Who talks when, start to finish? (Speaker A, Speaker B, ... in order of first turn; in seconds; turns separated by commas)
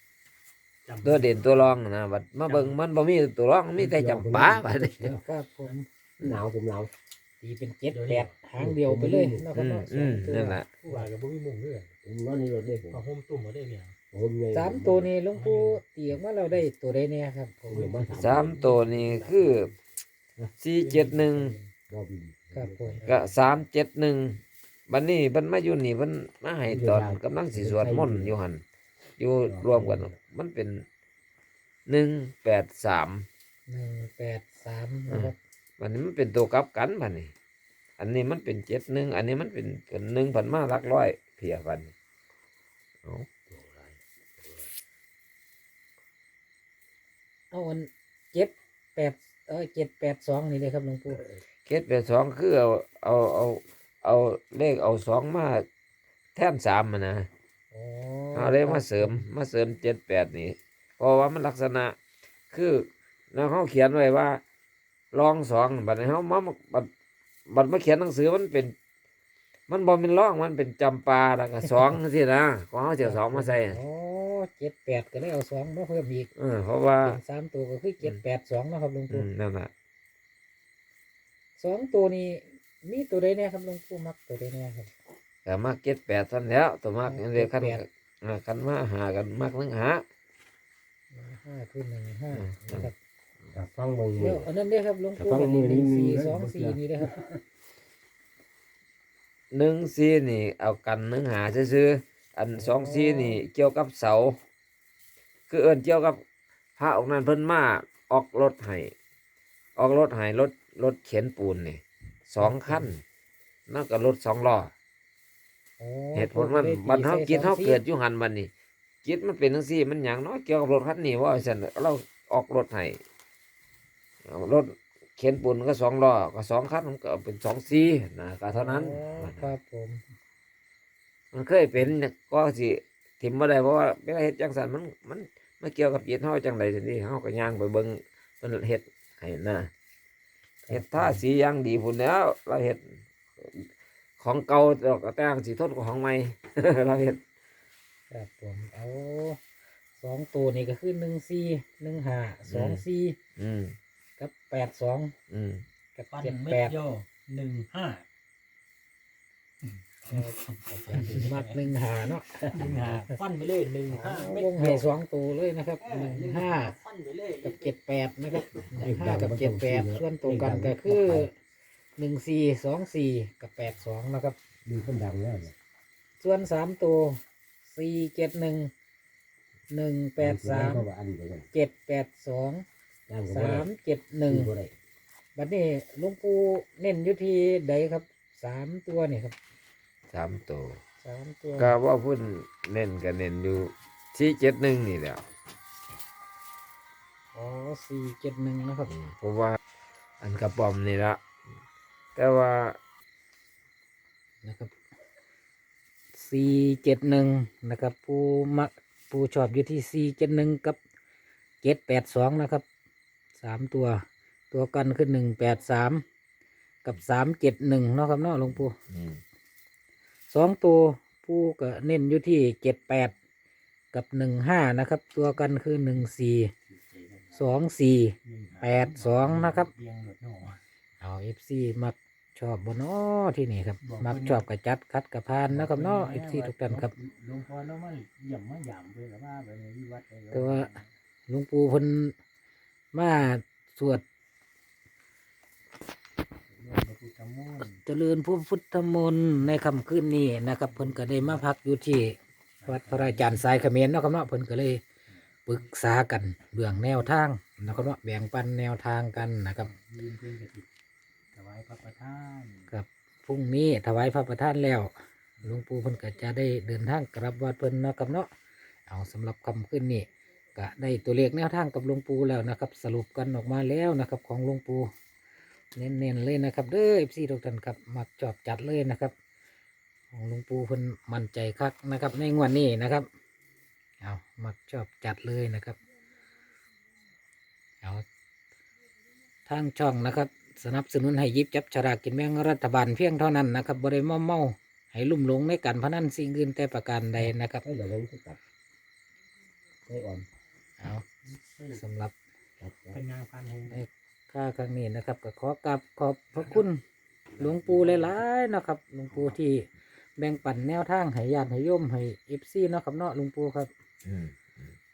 Speaker A: 0.9-1.8, Speaker B: 1.0-5.1, Speaker A: 2.5-2.8, Speaker C: 3.8-5.2, Speaker D: 5.2-5.8, Speaker C: 6.2-6.9, Speaker D: 7.4-10.6, Speaker A: 7.9-8.4, Speaker C: 8.6-9.5, Speaker B: 9.6-10.7, Speaker A: 10.8-11.9, Speaker C: 12.0-13.0, Speaker A: 12.9-13.9, Speaker C: 14.1-15.1, Speaker D: 14.5-17.9, Speaker A: 15.3-15.8, Speaker C: 17.7-18.7, Speaker A: 17.7-19.7, Speaker B: 18.1-19.7, Speaker B: 20.6-21.6, Speaker A: 20.8-21.7, Speaker C: 21.9-23.1, Speaker D: 22.5-23.0, Speaker A: 23.0-23.3, Speaker B: 23.1-28.6, Speaker C: 26.7-28.4, Speaker B: 29.2-30.9, Speaker C: 29.5-30.1, Speaker B: 31.9-33.3, Speaker D: 33.7-35.4, Speaker B: 35.1-37.3, Speaker B: 38.0-41.9, Speaker C: 43.5-44.7, Speaker D: 47.5-51.2, Speaker B: 51.7-55.6, Speaker B: 56.4-57.3, Speaker D: 57.7-59.2, Speaker B: 58.4-62.0, Speaker B: 62.5-64.4, Speaker B: 65.1-66.9, Speaker B: 67.5-68.7, Speaker B: 69.7-73.8, Speaker D: 73.0-76.3, Speaker B: 76.4-77.2, Speaker D: 77.0-79.3, Speaker B: 79.1-79.7, Speaker D: 81.6-84.9, Speaker B: 85.5-90.0, Speaker D: 87.0-87.8, Speaker D: 91.1-92.9, Speaker B: 92.3-92.9, Speaker C: 93.5-94.5, Speaker D: 94.2-97.1, Speaker C: 95.2-97.4, Speaker B: 99.5-104.4, Speaker D: 102.5-103.4, Speaker B: 105.5-106.2, Speaker B: 106.8-108.9, Speaker B: 109.8-113.0, Speaker D: 112.4-112.9, Speaker B: 113.7-114.7, Speaker D: 115.8-117.8, Speaker B: 116.2-118.5, Speaker B: 119.0-123.0, Speaker B: 124.3-129.5, Speaker D: 128.5-130.0, Speaker B: 131.3-139.7, Speaker D: 140.7-141.2, Speaker B: 140.7-143.7, Speaker B: 144.2-147.2, Speaker D: 148.1-149.4, Speaker D: 150.0-153.2, Speaker B: 152.5-152.8, Speaker B: 153.4-153.8, Speaker D: 154.2-155.1, Speaker B: 155.3-155.6, Speaker D: 155.9-156.8, Speaker A: 156.1-158.0, Speaker D: 160.1-163.0, Speaker A: 160.9-161.7, Speaker A: 162.4-164.9, Speaker D: 163.9-166.8, Speaker A: 165.8-167.8, Speaker D: 167.4-171.3, Speaker C: 168.8-171.3, Speaker D: 172.0-174.4, Speaker C: 174.7-175.5, Speaker D: 176.2-178.7, Speaker D: 179.7-180.9, Speaker C: 180.2-181.5, Speaker D: 181.5-182.6, Speaker C: 183.1-183.7, Speaker D: 183.3-184.5, Speaker C: 184.3-184.7, Speaker D: 185.4-189.4, Speaker B: 190.1-190.8, Speaker D: 191.0-191.8, Speaker B: 191.6-195.2, Speaker D: 197.3-198.9, Speaker B: 198.9-199.6, Speaker B: 200.2-201.2, Speaker B: 202.2-202.8, Speaker D: 204.4-204.8, Speaker D: 206.1-210.8, Speaker D: 211.6-212.6, Speaker D: 213.4-216.0, Speaker D: 216.8-218.8, Speaker B: 218.5-219.2, Speaker D: 220.3-223.1, Speaker D: 223.9-226.5, Speaker A: 226.7-227.5, Speaker D: 227.3-229.7, Speaker A: 228.2-230.6, Speaker D: 231.0-236.9, Speaker A: 233.8-234.4, Speaker A: 235.5-240.8, Speaker D: 240.3-240.7, Speaker D: 241.3-242.1, Speaker D: 242.9-244.0, Speaker A: 246.5-247.8, Speaker D: 247.8-254.8, Speaker A: 250.7-251.4, Speaker A: 252.6-253.4, Speaker D: 255.5-259.7, Speaker A: 259.6-260.7, Speaker A: 261.3-262.7, Speaker D: 262.7-268.3, Speaker D: 268.9-274.9, Speaker D: 275.8-279.1, Speaker D: 280.1-283.1, Speaker D: 284.0-285.8, Speaker D: 289.5-297.6, Speaker C: 297.6-298.4, Speaker C: 299.9-300.3, Speaker D: 300.8-301.1, Speaker A: 301.3-301.8, Speaker D: 301.7-302.1, Speaker C: 302.6-303.0, Speaker A: 302.9-303.8, Speaker D: 303.7-306.8, Speaker C: 307.4-308.2, Speaker D: 307.4-313.7, Speaker B: 314.1-314.7